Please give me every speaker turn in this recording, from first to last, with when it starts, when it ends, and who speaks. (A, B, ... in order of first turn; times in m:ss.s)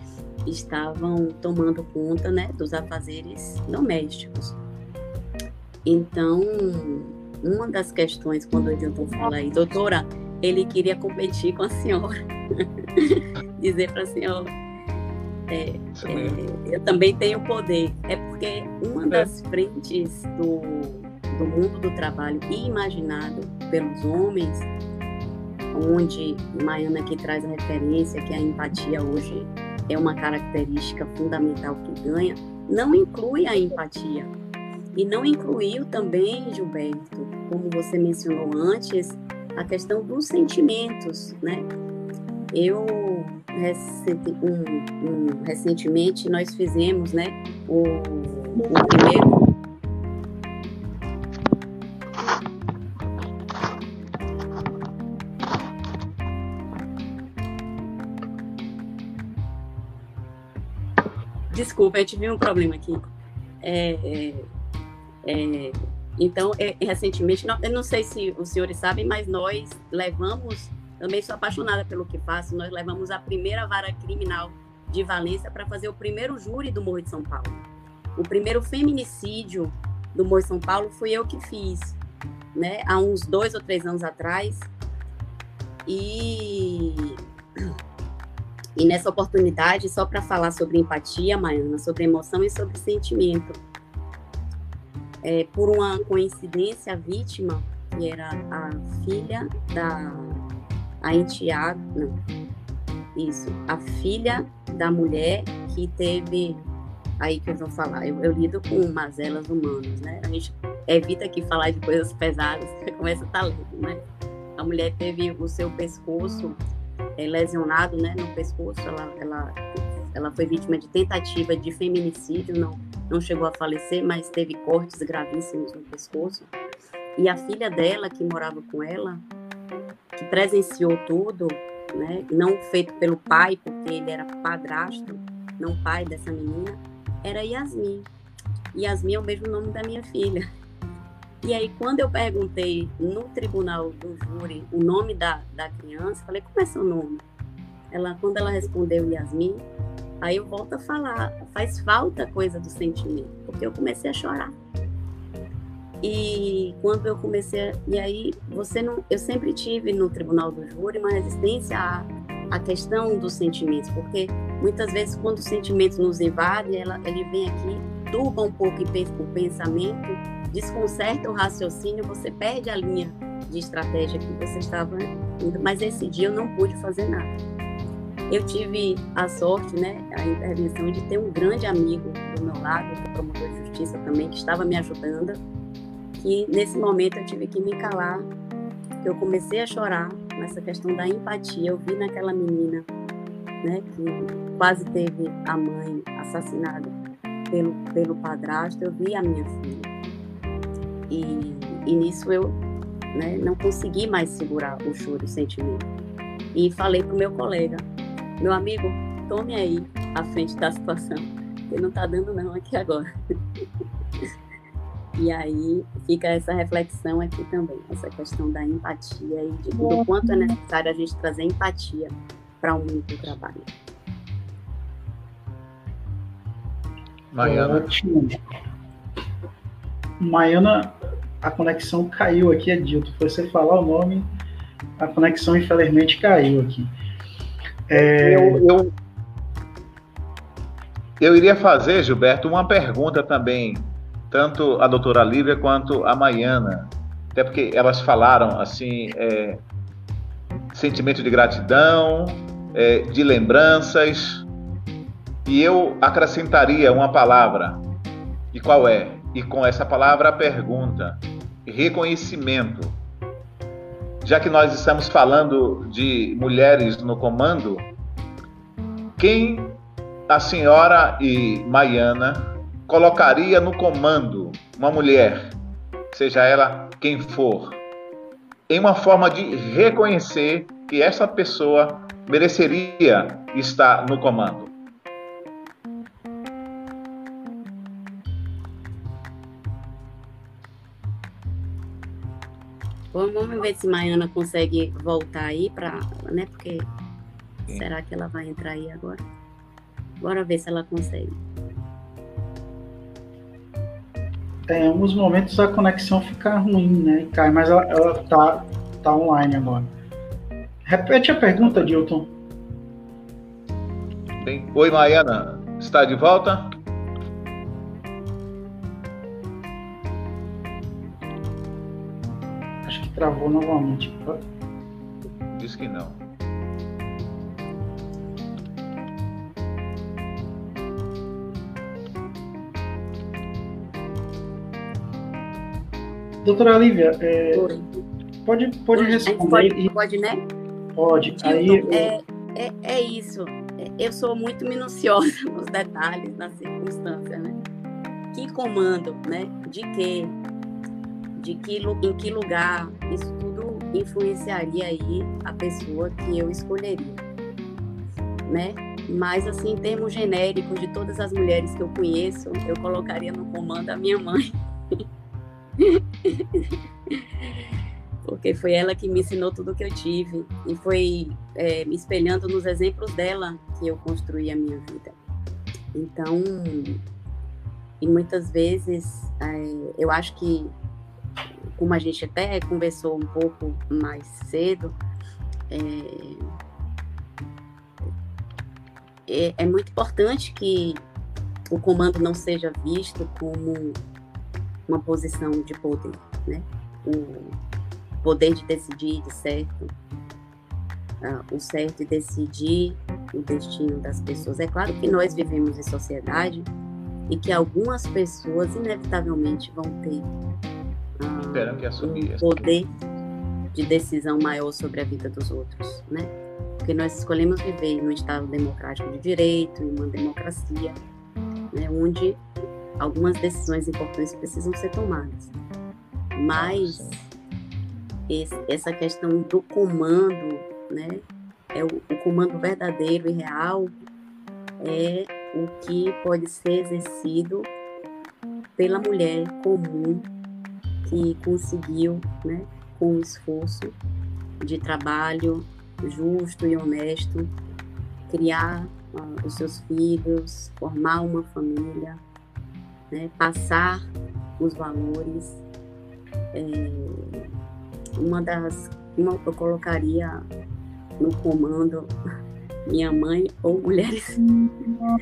0:00.5-0:04.6 A
0:05.9-0:14.5 A
0:15.5-0:24.7 A
0:16.0-0:16.4 B
0:25.7-0:34.3 A
0:34.9-0:41.7 A
0:42.5-0:49.4 A
1:01.5-1:03.1 A
1:03.6-1:04.5 A
1:05.2-1:17.6 A
1:18.2-1:22.0 A
1:22.6-1:24.7 A
1:25.9-1:27.2 A
1:28.8-1:33.6 A
1:35.2-1:40.4 A
1:41.0-1:42.2 A
1:43.2-1:46.6 A
1:47.2-1:54.0 A
1:54.6-1:56.6 A
1:57.2-2:06.5 A
2:07.2-2:09.2 A
2:10.2-2:18.1 A
2:18.7-2:20.5 A
2:21.4-2:27.2 A
2:27.9-2:29.6 A
2:30.2-2:34.6 A
2:36.0-2:57.3 A
2:58.3-3:05.4 A
3:06.2-3:08.3 A
3:09.0-3:12.9 A
3:13.6-3:16.9 A
3:17.5-3:19.9 A
3:21.1-3:22.6 A
3:23.1-3:25.9 A
3:26.5-3:27.8 A
3:28.4-3:33.1 A
3:35.2-3:43.7 A
3:47.3-3:47.9 B
3:47.4-3:48.4 C
3:50.2-3:54.3 C
3:55.0-3:56.9 C
3:57.9-3:58.7 C
3:58.0-3:58.9 B
4:01.2-4:09.6 B
4:10.7-4:14.5 B
4:15.5-4:17.8 B
4:18.5-4:23.0 B
4:24.2-4:27.9 B
4:29.2-4:35.6 B
4:36.1-4:37.8 B
4:38.7-4:44.7 B
4:53.1-4:56.9 A
4:57.7-4:59.2 A
5:00.2-5:01.4 A
5:04.7-5:09.9 C
5:10.9-5:12.3 C
5:14.4-5:16.7 B
5:22.8-5:24.4 C
5:25.5-5:26.2 B
5:36.4-5:37.7 C
5:37.5-5:37.9 A
5:38.4-5:39.9 C
5:39.0-5:40.4 A
5:41.0-5:42.1 C
5:41.4-5:47.6 A
5:48.3-5:50.3 A
5:51.4-5:57.2 A
5:58.5-6:05.0 A
6:05.8-6:06.8 A
6:08.2-6:15.2 A
6:15.9-6:17.0 A
6:18.0-6:20.7 A
6:21.8-6:25.0 A
6:25.7-6:26.5 A
6:29.3-6:31.0 A
6:31.7-6:34.0 A
6:34.9-6:37.6 A
6:38.2-6:39.9 A
6:41.2-6:46.7 A
6:47.3-6:50.3 A
6:51.2-6:52.9 A
6:51.5-6:52.8 B
6:53.7-7:01.0 A
7:01.7-7:02.4 A
7:03.0-7:05.5 A
7:06.4-7:07.3 A
7:06.5-7:07.2 B
7:08.3-7:11.2 A
7:11.7-7:14.0 A
7:14.8-7:17.7 A
7:18.8-7:20.3 A
7:21.0-7:24.0 A
7:24.6-7:27.5 A
7:28.3-7:32.2 A
7:33.1-7:34.0 A
7:34.6-7:35.6 A
7:36.5-7:37.5 A
7:38.2-7:40.4 A
7:41.2-7:42.1 A
7:42.9-7:44.5 A